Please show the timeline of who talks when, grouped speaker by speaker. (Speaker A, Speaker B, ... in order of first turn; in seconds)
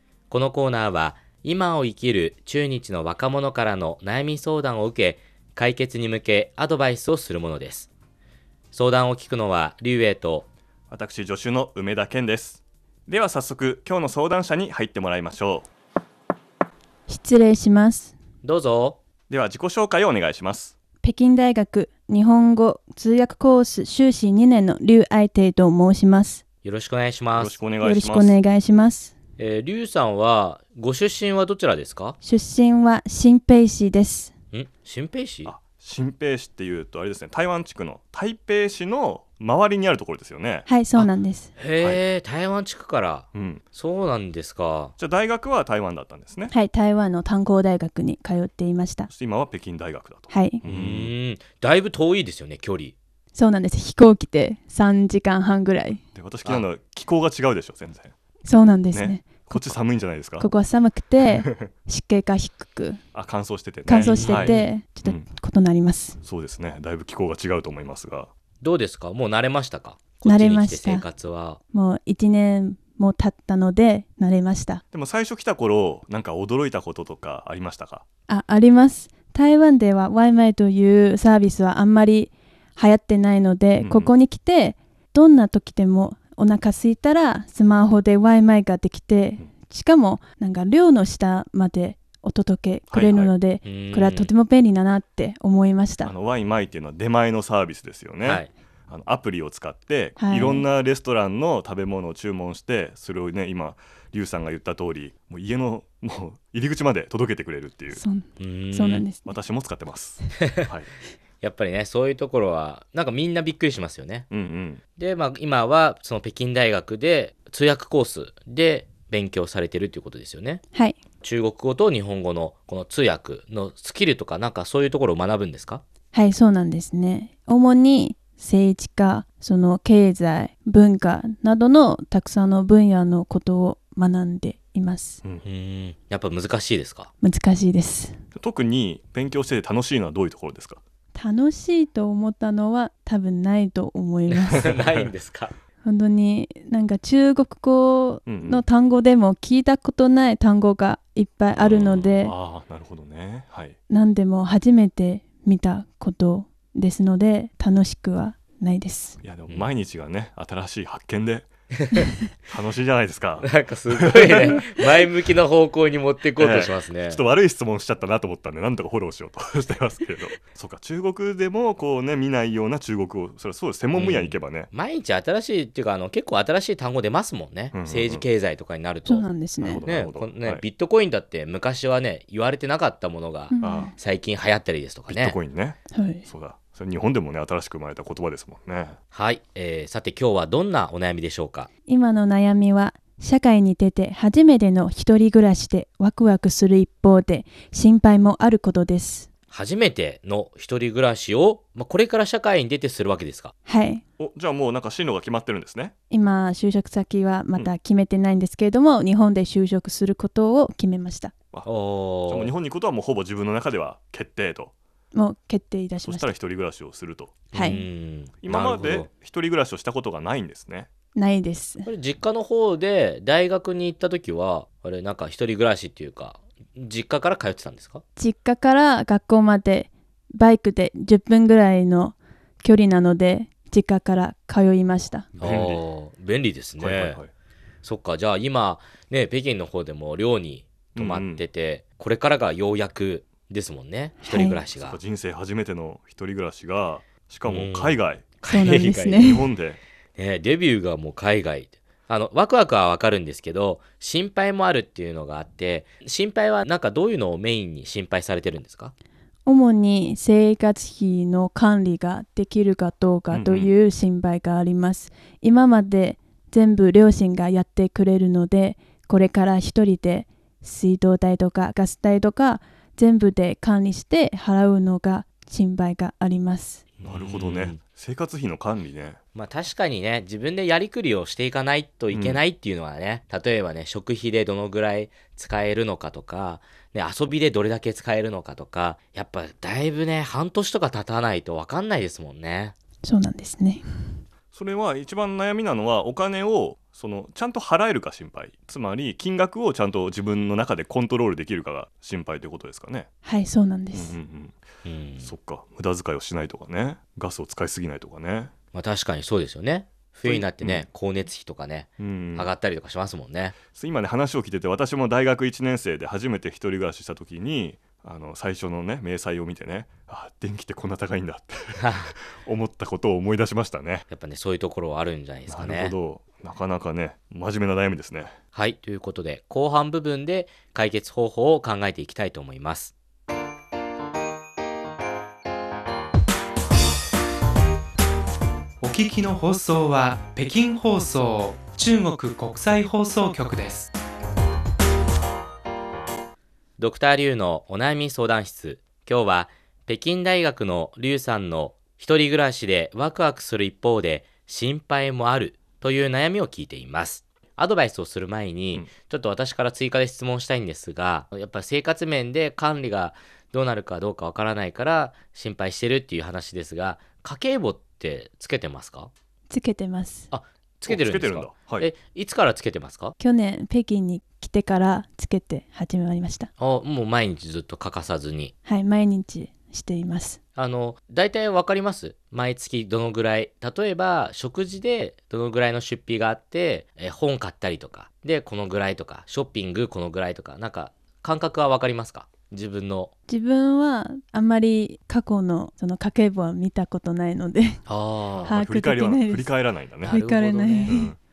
Speaker A: 0.3-7.9, 8.7-10.5, 18.4-19.0, 26.6-27.6, 29.4-32.1, 34.5-35.5, 41.0-44.9, 50.6-52.9, 64.0-64.7, 68.6-71.6, 93.6-94.3, 98.2-98.5, 108.4-109.0, 110.4-110.7, 111.4-114.3, 115.0-120.6, 121.2-125.8, 135.4-137.1, 144.5-145.5, 161.7-162.1, 163.4-167.2, 173.9-179.3, 179.8-185.4, 189.1-191.7, 199.5-203.5, 211.6-212.5, 217.5-219.1, 221.8-228.0, 235.4-237.2, 237.8-245.0, 247.4-249.4, 250.2-258.9, 277.0-277.8, 279.3-292.7, 304.8-305.3, 308.7-313.6, 321.8-322.1, 324.1-325.9, 328.5-332.9, 346.8-369.1, 370.3-373.1, 376.6-378.5, 380.6-393.1, 397.9-398.6, 400.0-401.0
Speaker B: 10.9-15.7, 19.3-20.7, 27.4-28.4, 35.4-40.7, 43.3-43.6, 45.0-46.5, 49.1-51.1, 56.1-58.1, 58.9-60.5, 61.3-61.7, 63.1-65.2, 66.2-68.3, 74.9-78.0, 83.8-84.1, 92.9-93.3, 96.0-108.0, 109.2-110.9, 114.3-114.8, 138.3-140.8, 144.6-145.1, 148.2-148.6, 151.5-153.8, 159.2-161.5, 162.5-164.6, 166.4-174.7, 177.7-178.2, 179.6-180.6, 183.6-183.9, 185.1-189.0, 204.2-205.9, 212.2-214.7, 216.0-217.4, 218.4-220.9, 235.3-235.8, 236.8-237.3, 240.9-241.4, 244.8-248.3, 249.2-249.8, 263.3-263.7, 277.0-279.2, 282.1-282.4, 294.5-303.1, 303.9-304.6, 305.2-308.5, 310.2-310.9, 312.0-312.5, 313.7-324.1, 325.5-328.3, 370.9-371.9, 398.3-400.2, 400.9-401.2
Speaker C: 17.1-18.1, 21.0-26.4, 27.8-29.1, 32.2-34.3, 40.7-41.5, 46.5-49.1, 50.3-50.6, 53.3-56.0, 58.4-59.8, 60.4-63.0, 63.8-66.2, 70.2-71.0, 71.7-74.8, 78.3-96.1, 100.2-100.7, 107.9-109.3, 120.7-121.0, 126.1-135.2, 137.2-138.2, 141.1-144.7, 145.8-152.3, 153.9-159.2, 179.0-179.8, 183.5-183.9, 185.9-186.3, 191.9-199.3, 203.7-204.0, 206.1-211.3, 215.1-216.3, 217.5-217.8, 221.1-221.9, 228.2-235.3, 244.2-244.6, 248.4-249.4, 259.4-276.9, 293.0-293.8, 303.2-304.1, 369.5-370.3, 373.2-376.5, 378.6-380.4, 393.3-397.8, 398.4-401.1
Speaker D: 338.8-343.9